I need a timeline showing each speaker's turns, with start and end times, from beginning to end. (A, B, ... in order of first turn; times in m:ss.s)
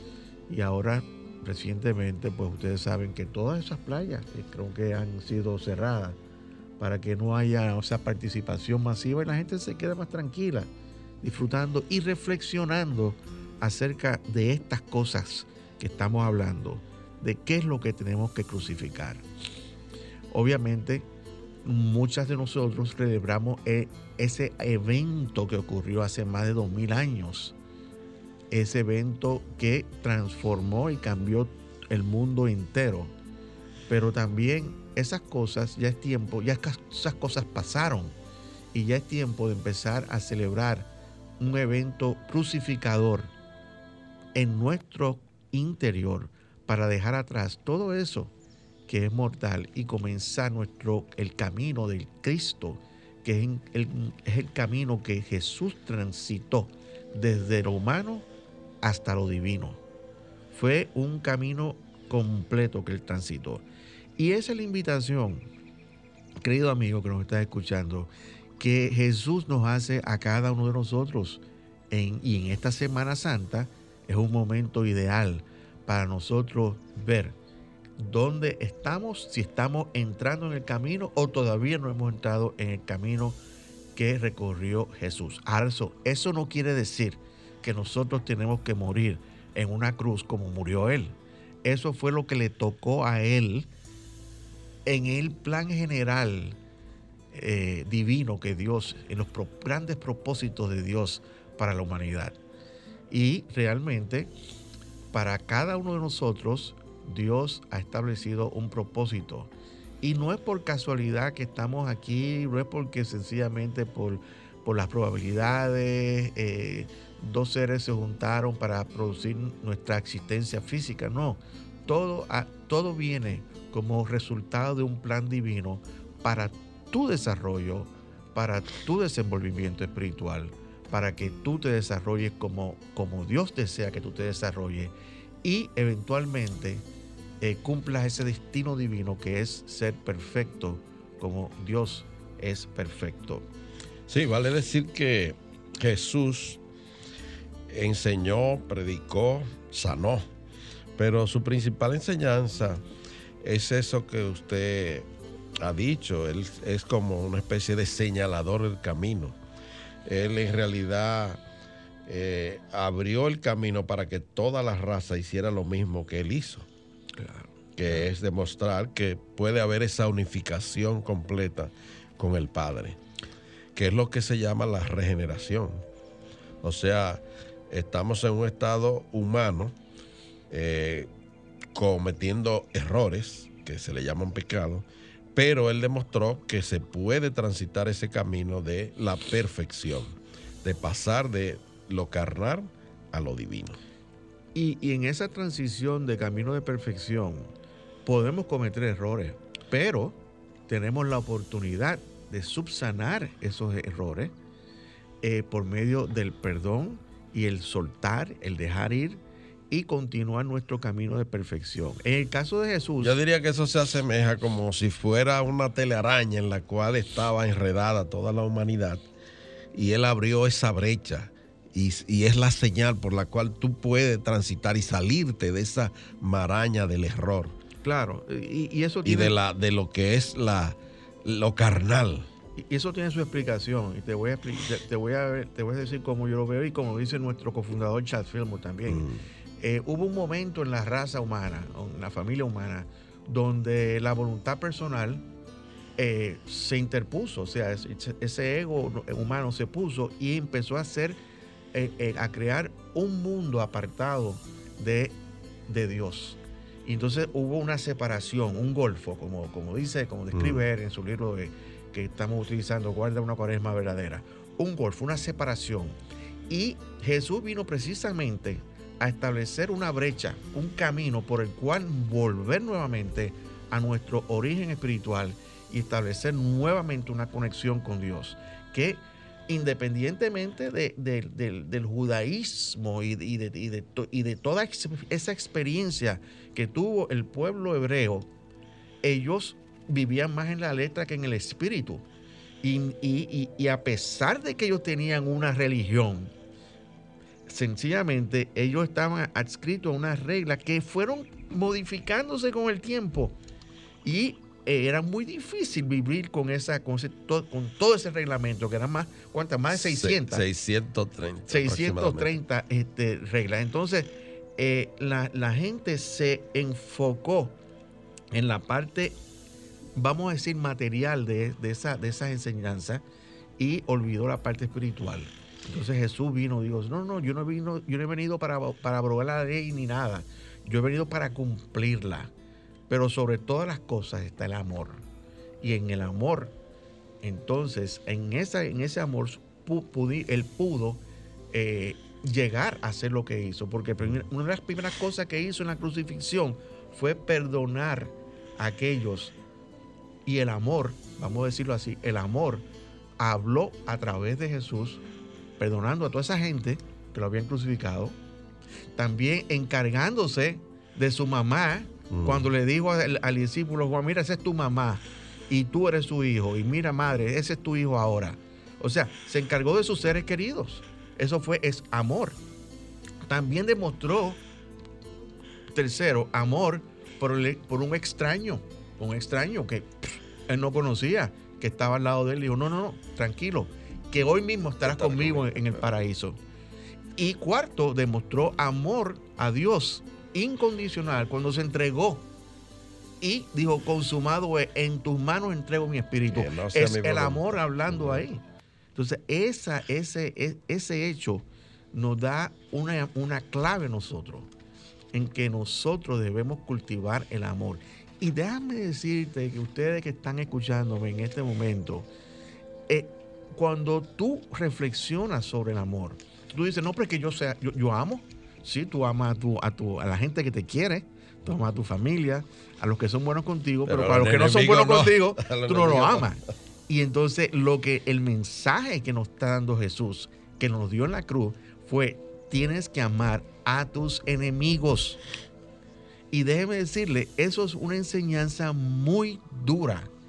0:00.5-0:06.2 A
0:06.8-0:10.7 A
0:11.2-0:19.2 A
0:20.3-0:21.1 A
0:21.6-0:27.5 A
0:28.5-0:33.1 A
0:33.9-0:38.2 A
0:38.7-0:43.3 A
0:44.3-0:48.3 A
0:48.9-0:58.2 A
0:58.8-0:59.8 A
1:00.5-1:03.6 A
1:04.2-1:05.5 A
1:06.4-1:17.4 A
1:18.0-1:23.4 A
1:24.0-1:33.7 A
1:34.8-1:36.6 A
1:37.3-1:42.4 A
1:43.1-1:44.3 A
1:45.1-2:16.8 A
2:17.4-2:23.4 A
2:24.1-2:26.6 B
2:27.7-2:30.3 B
2:31.0-2:32.8 B
2:33.4-2:35.1 B
2:35.6-2:39.4 B
2:40.0-2:41.4 B
2:42.1-2:46.7 B
2:47.2-2:48.1 A
2:47.8-2:53.0 B
2:53.7-2:55.8 B
2:56.6-2:59.8 B
3:00.5-3:01.1 B
3:01.7-3:13.8 B
3:14.5-3:17.5 A
3:18.0-3:24.3 A
3:25.2-3:33.1 A
3:33.0-3:39.0 B
3:39.7-3:47.6 B
3:47.8-3:49.3 A
3:49.0-3:52.3 B
3:52.6-3:59.1 A
3:58.8-3:59.2 B
3:59.6-4:05.2 A
4:06.0-4:11.2 A
4:11.7-4:26.0 A
4:20.3-4:20.6 B
4:26.5-4:48.3 A
4:49.0-4:52.0 A
4:52.6-4:56.3 A
4:57.5-5:03.4 A
5:04.0-5:10.4 A
5:09.7-5:12.4 B
5:11.5-5:17.6 A
5:18.3-5:19.2 A
5:20.0-5:23.0 A
5:23.6-5:32.3 A
5:32.9-5:35.0 A
5:35.6-5:36.6 A
5:37.2-5:49.3 A
5:50.2-5:52.7 A
5:53.2-5:55.0 A
5:55.6-5:58.2 A
5:58.9-6:12.4 A
6:02.1-6:02.5 B
6:13.2-6:14.4 A
6:15.7-6:26.4 A
6:24.8-6:25.7 B
6:27.2-6:32.3 A
6:33.2-6:38.4 A
6:36.3-6:38.2 B
6:38.9-6:44.5 A
6:45.1-6:52.1 A
6:52.9-7:15.2 A
7:03.8-7:06.4 B
7:16.3-7:20.1 A